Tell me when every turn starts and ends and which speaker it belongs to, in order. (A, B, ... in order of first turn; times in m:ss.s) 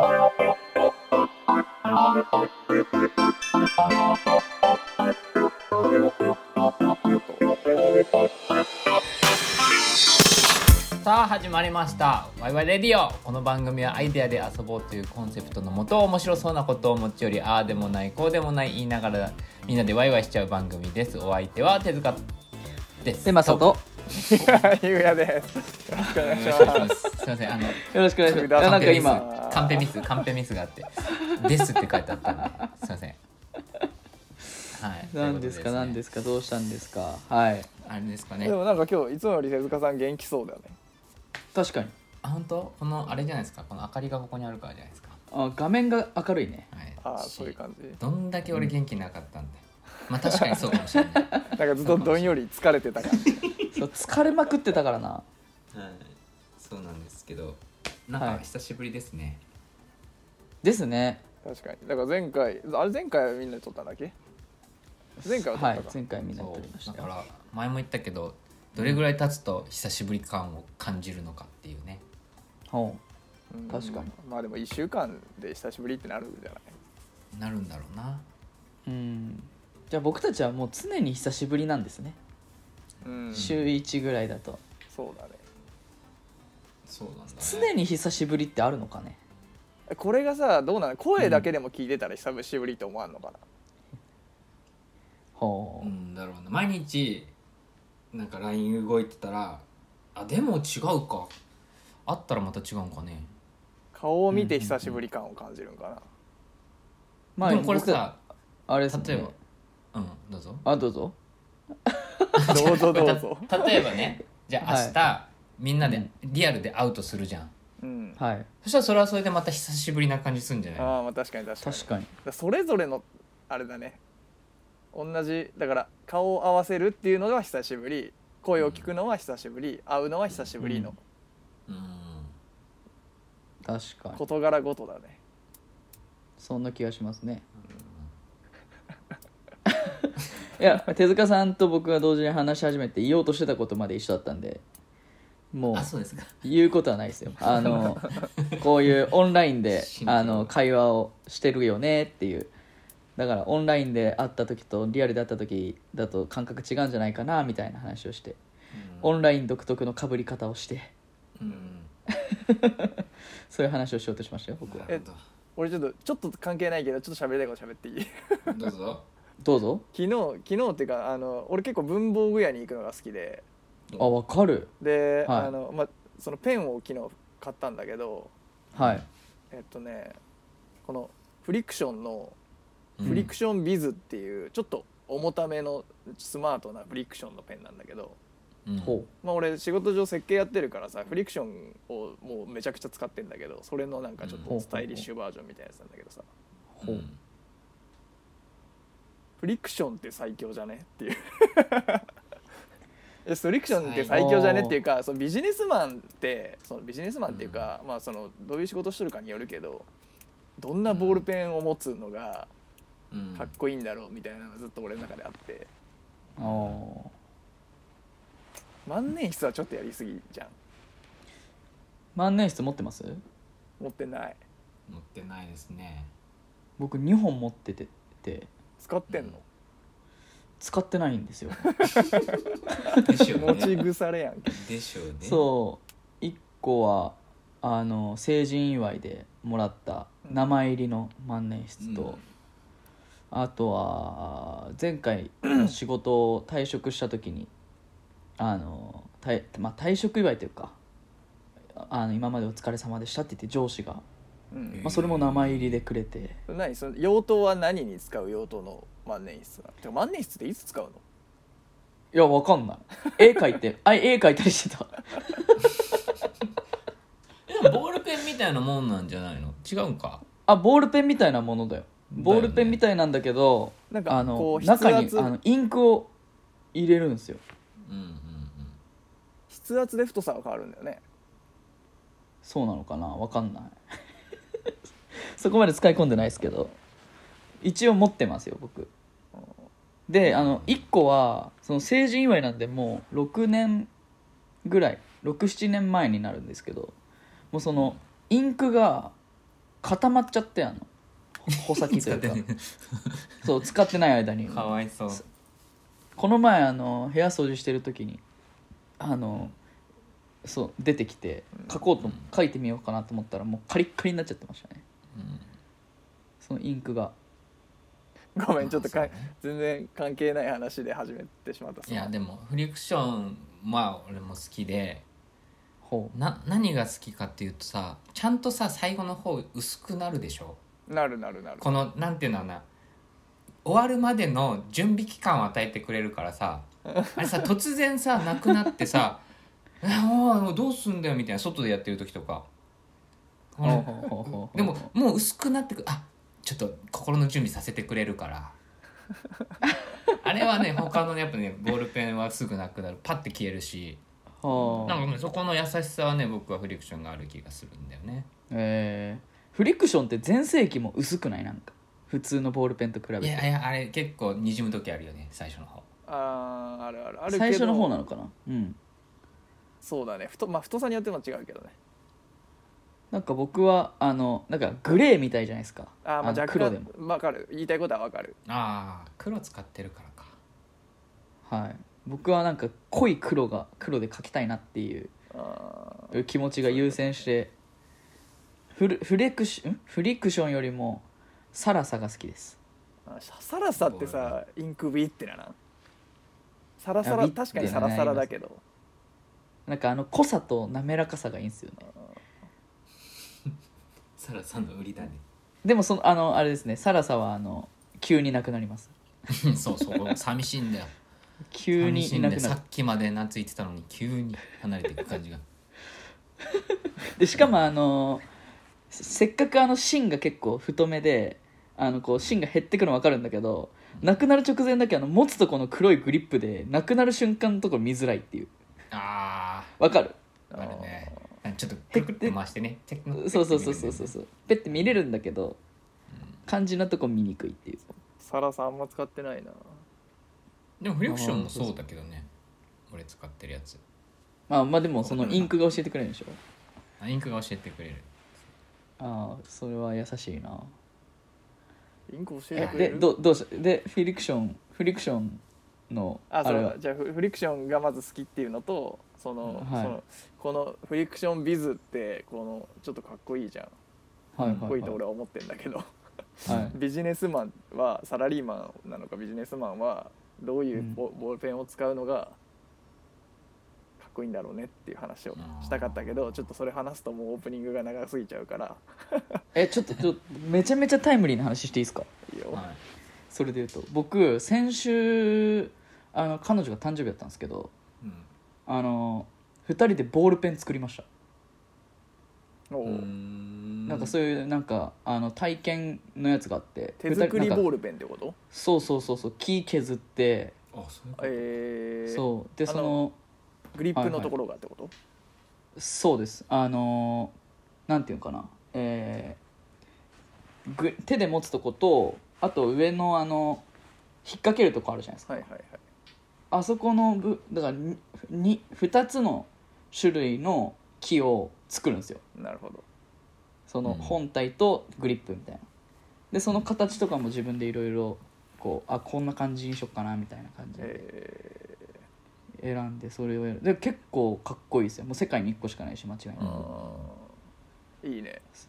0:07.0-0:07.6 A
0:11.0-0:22.2 B
0:23.0-0:23.7 B
0:23.2-0:23.8 C
0:24.1-0:27.0 A
0:26.0-0:33.2 B
0:27.8-0:29.2 C
0:28.2-0:29.9 A
0:34.7-0:36.0 B
0:35.1-0:37.7 C
0:37.8-0:38.6 B
0:38.4-0:40.8 A
0:41.5-0:41.9 C
0:42.2-0:45.2 B
0:45.3-0:46.7 C
0:46.7-0:52.4 B
0:47.0-0:48.0 A
0:51.1-0:51.5 C
0:51.5-0:53.5 A
0:53.1-0:53.7 B
0:53.7-0:55.2 C
0:55.7-0:59.4 B
0:58.2-0:58.4 C
1:00.6-1:01.2 C
1:01.4-1:04.1 A
1:05.2-1:06.0 A
1:05.2-1:07.1 C
1:06.3-1:12.0 B
1:12.7-1:13.0 C
1:13.5-1:16.7 A
1:13.7-1:14.1 C
1:17.3-1:18.2 B
1:18.8-1:22.2 C
1:23.0-1:23.6 A
1:23.3-1:23.7 B
1:23.3-1:24.6 C
1:24.9-1:25.4 A
1:26.8-1:27.7 B
1:27.4-1:29.2 C
1:29.9-1:33.4 A
1:35.4-1:35.9 C
1:35.8-1:37.3 B
1:38.1-1:41.3 B
1:42.0-1:43.3 B
1:43.9-1:46.0 A
1:44.3-1:44.8 C
1:47.4-1:48.0 C
1:47.4-1:48.2 B
1:48.7-1:49.4 C
1:48.8-1:49.3 B
1:49.9-1:50.6 B
1:50.6-1:51.2 C
1:51.8-1:52.7 C
1:52.4-1:57.5 B
1:52.5-1:53.5 A
1:54.6-1:55.0 C
1:55.8-1:56.1 C
1:57.8-1:58.2 A
1:58.2-1:58.5 C
1:58.6-2:01.0 B
2:00.8-2:04.0 A
2:01.6-2:02.1 C
2:04.9-2:11.0 A
2:08.6-2:08.9 B
2:10.3-2:10.5 B
2:10.6-2:10.9 C
2:11.7-2:12.3 B
2:13.6-2:14.2 C
2:14.2-2:15.2 A
2:16.4-2:17.4 C
2:17.6-2:18.1 B
2:19.7-2:24.6 C
2:25.5-2:32.5 C
2:25.7-2:26.3 B
2:27.5-2:28.6 B
2:29.7-2:30.5 B
2:33.2-2:38.4 C
2:38.7-2:39.1 B
2:39.0-2:40.9 C
2:41.4-2:41.9 B
2:42.1-2:44.9 C
2:44.6-2:45.2 B
2:45.6-2:48.5 A
2:48.5-2:49.0 B
2:49.4-2:49.8 C
2:49.9-2:53.4 A
2:54.0-2:54.7 C
2:54.8-2:58.3 A
2:55.2-2:55.5 C
2:58.7-2:59.0 C
2:58.7-2:59.0 B
2:59.5-3:00.2 A
3:00.8-3:02.4 A
3:03.0-3:03.3 B
3:03.0-3:08.2 A
3:03.0-3:03.3 C
3:08.6-3:09.0 B
3:08.8-3:09.1 C
3:09.2-3:16.3 A
3:14.2-3:14.5 B
3:14.5-3:15.1 C
3:16.7-3:17.0 C
3:16.8-3:17.2 B
3:19.4-3:22.1 A
3:23.2-3:29.9 A
3:23.7-3:24.2 B
3:24.1-3:24.8 C
3:27.3-3:27.7 B
3:30.6-3:32.5 A
3:30.9-3:31.2 B
3:33.1-3:33.5 B
3:33.3-3:35.7 A
3:36.4-3:37.1 C
3:36.4-3:36.8 B
3:38.8-3:40.5 A
3:42.2-3:43.2 C
3:43.8-3:44.4 A
3:44.9-3:46.1 B
3:46.8-3:48.5 C
3:48.8-3:49.4 A
3:49.1-3:49.4 B
3:50.6-3:52.1 C
3:53.0-3:53.8 B
3:53.3-3:54.6 A
3:54.5-3:55.5 B
3:55.2-4:02.2 C
4:01.8-4:02.2 B
4:03.3-4:07.5 C
4:08.4-4:10.8 C
4:11.8-4:14.0 C
4:14.5-4:14.9 A
4:14.6-4:15.8 B
4:14.8-4:16.4 C
4:16.5-4:21.0 A
4:22.1-4:25.5 C
4:27.5-4:30.2 B
4:30.4-4:36.1 C
4:32.2-4:32.8 B
4:33.9-4:35.4 A
4:36.7-4:37.4 C
4:37.8-4:38.8 B
4:39.5-4:41.0 A
4:42.4-4:43.8 C
4:45.2-4:46.8 C
4:47.6-4:48.9 C
4:49.3-4:49.6 A
4:50.1-4:53.9 C
4:50.2-4:50.8 B
4:54.6-4:56.9 C
4:57.5-4:59.1 C
4:59.8-5:00.9 C
5:01.4-5:02.4 C
5:01.5-5:03.3 B
5:03.4-5:04.7 C
5:04.5-5:05.2 B
5:06.2-5:08.2 C
5:09.0-5:09.5 C
5:10.4-5:14.8 C
5:15.1-5:15.5 B
5:16.4-5:17.2 C
5:18.3-5:22.1 A
5:18.6-5:19.3 B
5:21.9-5:25.0 B
5:25.8-5:26.1 C
5:26.1-5:30.6 B
5:30.9-5:31.8 A
5:31.6-5:32.6 B
5:33.6-5:39.2 B
5:39.8-5:42.5 B
5:43.6-5:48.6 B
5:43.6-5:44.9 C
5:50.1-5:54.0 B
5:54.4-5:55.0 C
5:54.5-5:55.0 A
5:54.8-5:58.3 B
5:58.5-6:03.4 C
6:03.2-6:05.9 B
6:06.1-6:07.9 A
6:07.3-6:08.8 C
6:09.8-6:11.8 A
6:13.1-6:16.9 C
6:16.0-6:18.4 A
6:18.5-6:20.4 B
6:21.4-6:25.1 C
6:25.3-6:26.1 A
6:26.1-6:27.5 C
6:26.6-6:27.1 B
6:28.7-6:32.6 C
6:33.0-6:35.6 A
6:33.8-6:34.4 B
6:36.8-6:38.6 A
6:37.0-6:38.3 C
6:39.7-6:41.9 C
6:44.2-6:45.2 B
6:45.6-6:48.9 C
6:49.3-6:50.9 B
6:51.5-6:52.6 C
6:51.8-6:55.4 B
6:56.5-6:58.2 C
6:58.9-7:08.5 C
7:08.9-7:09.7 B
7:09.8-7:10.2 C
7:10.5-7:11.2 A
7:10.5-7:14.1 B
7:11.9-7:12.3 C
7:13.1-7:15.6 C
7:16.1-7:16.4 B
7:16.5-7:17.9 C
7:18.2-7:19.8 A
7:20.8-7:22.3 B
7:21.1-7:21.7 C
7:22.9-7:23.8 B
7:24.5-7:26.4 C
7:25.0-7:25.5 B
7:27.0-7:28.1 B
7:29.0-7:30.7 C
7:32.1-7:33.1 A
7:32.5-7:32.9 B
7:32.6-7:36.8 C
7:36.3-7:43.8 A
7:39.6-7:40.0 C
7:44.4-7:45.0 C
7:44.4-7:44.7 B
7:44.6-7:45.9 A
7:46.4-7:46.8 B
7:46.5-7:46.8 C
7:46.7-7:52.4 A
7:50.7-7:51.0 C
7:54.0-7:59.4 A
7:55.4-7:56.4 B
7:59.5-8:02.1 C
8:02.3-8:02.6 A
8:02.5-8:02.8 B
8:03.3-8:07.7 C
8:08.0-8:08.3 B
8:08.7-8:11.0 C
8:12.7-8:13.1 A
8:12.8-8:14.1 B
8:13.9-8:17.7 C
8:17.0-8:18.4 A
8:18.5-8:20.5 C
8:20.7-8:21.6 B
8:21.2-8:23.0 A
8:22.1-8:23.2 C
8:23.7-8:24.9 A
8:23.9-8:24.3 C
8:25.8-8:27.3 C
8:27.9-8:29.4 C
8:30.7-8:33.6 C
8:34.2-8:35.4 C
8:35.3-8:35.8 A
8:36.5-8:42.2 C
8:42.4-8:42.8 A
8:43.7-8:45.6 C
8:43.8-8:44.2 B
8:46.3-8:51.0 C
8:50.8-8:52.0 A
8:52.6-8:56.7 C
8:56.4-8:57.0 B
8:56.4-8:57.3 A
8:58.0-8:58.4 A